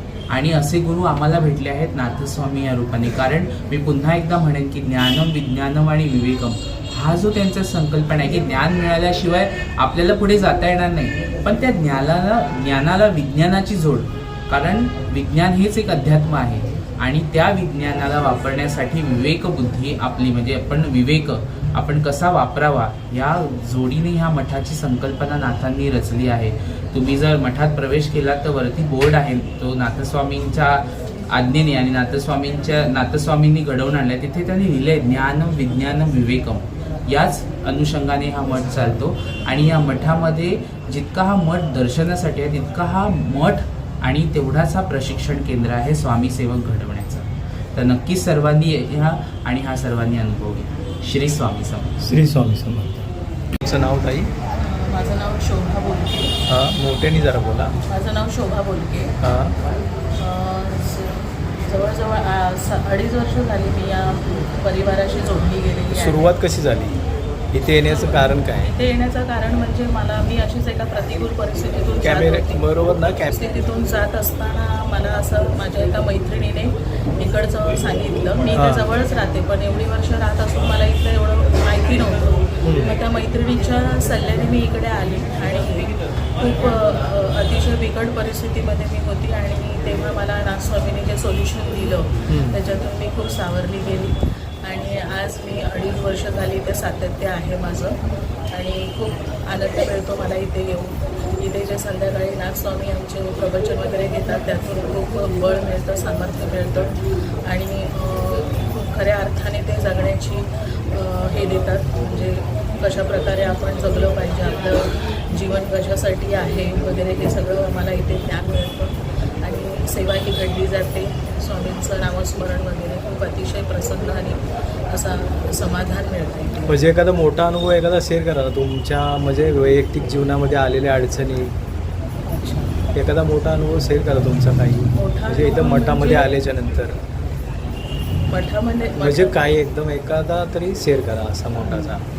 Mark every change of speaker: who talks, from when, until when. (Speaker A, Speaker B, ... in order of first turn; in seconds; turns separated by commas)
Speaker A: 0.3-51.9, Speaker B: 52.0-53.0, Speaker B: 53.6-54.3, Speaker C: 54.5-56.4, Speaker B: 56.5-57.7, Speaker C: 57.9-59.1, Speaker B: 59.2-59.5, Speaker C: 60.1-66.3, Speaker B: 65.9-68.7, Speaker C: 67.8-98.0, Speaker B: 72.0-73.4, Speaker B: 78.5-78.9, Speaker B: 82.6-83.0, Speaker B: 92.3-92.6, Speaker C: 98.5-126.8, Speaker B: 126.7-131.5, Speaker C: 132.2-132.8, Speaker B: 132.9-137.0, Speaker C: 134.9-136.3, Speaker C: 138.3-139.5, Speaker B: 139.0-142.0